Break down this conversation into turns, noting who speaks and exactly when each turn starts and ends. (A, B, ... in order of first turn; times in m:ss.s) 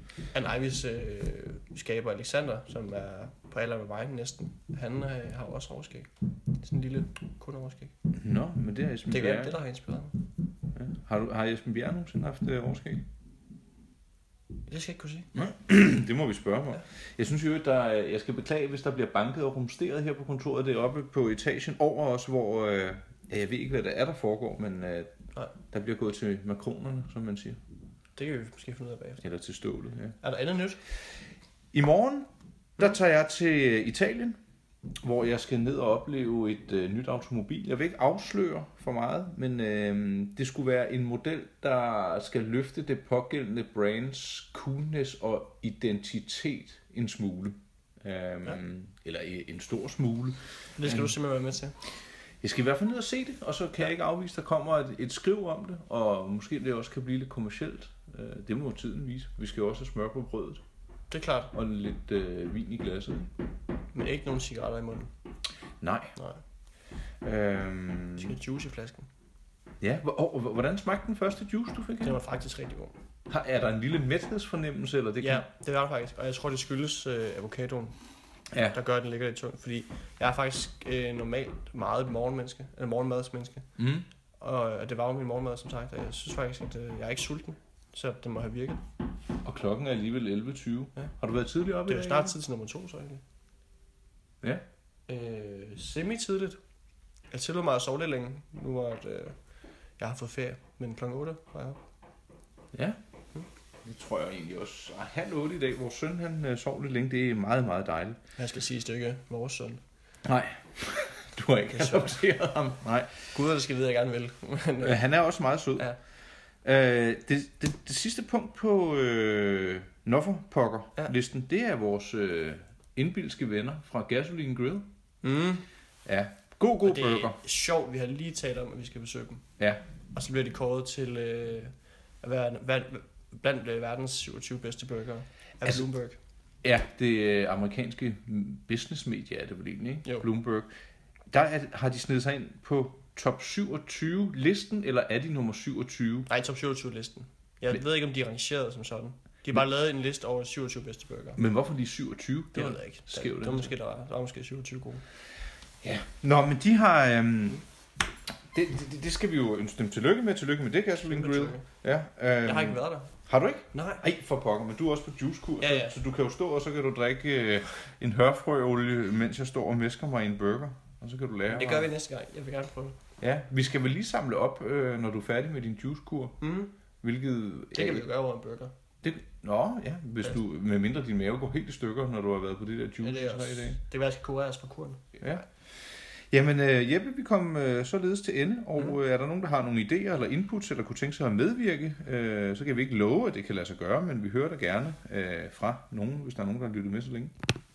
0:00.3-0:07.9 A
0:08.1-0:09.6 B
0:09.1-0:10.2 A
0:10.7-0:13.0 B
0:14.7-0:15.3 A
0:15.3-0:25.1 B
0:25.7-0:27.6 B
0:28.2-0:29.2 A
0:29.2-0:30.2 B
0:30.2-0:30.8 A
0:31.7-0:34.4 B
0:35.0-0:51.1 B
0:50.8-0:51.7 A
0:52.4-1:00.6 B
1:01.1-1:01.5 A
1:01.5-1:03.3 B
1:03.9-1:05.1 A
1:05.8-1:06.1 B
1:06.2-1:06.4 A
1:07.2-1:08.4 B
1:08.2-1:09.1 A
1:09.8-1:12.2 B
1:12.0-1:12.9 A
1:13.3-1:15.5 B
1:15.2-1:18.0 A
1:18.5-1:18.8 B
1:18.7-1:23.7 A
1:23.8-1:24.1 B
1:24.4-1:28.8 A
1:29.4-1:32.3 B
1:31.9-1:33.2 A
1:35.1-1:36.6 A
1:37.3-1:39.4 A
1:40.0-1:41.8 A
1:42.7-1:43.0 B
1:43.8-1:48.2 B
1:48.4-1:49.8 A
1:50.2-1:53.3 B
1:51.7-1:52.2 A
1:53.3-1:55.0 A
1:54.8-1:55.9 B
1:56.6-2:04.9 B
2:05.2-2:05.6 A
2:06.0-2:07.4 B
2:06.8-2:09.4 A
2:10.1-2:16.2 A
2:16.6-2:20.7 B
2:21.3-2:26.3 B
2:26.3-2:31.4 A
2:31.4-2:33.7 B
2:32.5-2:35.0 A
2:35.8-2:37.6 B
2:38.5-2:51.9 B
2:41.0-2:41.6 A
2:42.4-2:43.1 A
2:43.7-2:44.0 A
2:45.6-2:46.0 A
2:51.5-2:53.0 A
2:53.2-2:56.4 B
2:56.4-2:56.7 A
2:57.0-2:58.0 B
2:57.7-2:58.7 A
2:59.0-3:03.8 B
3:03.0-3:05.2 A
3:05.2-3:17.3 B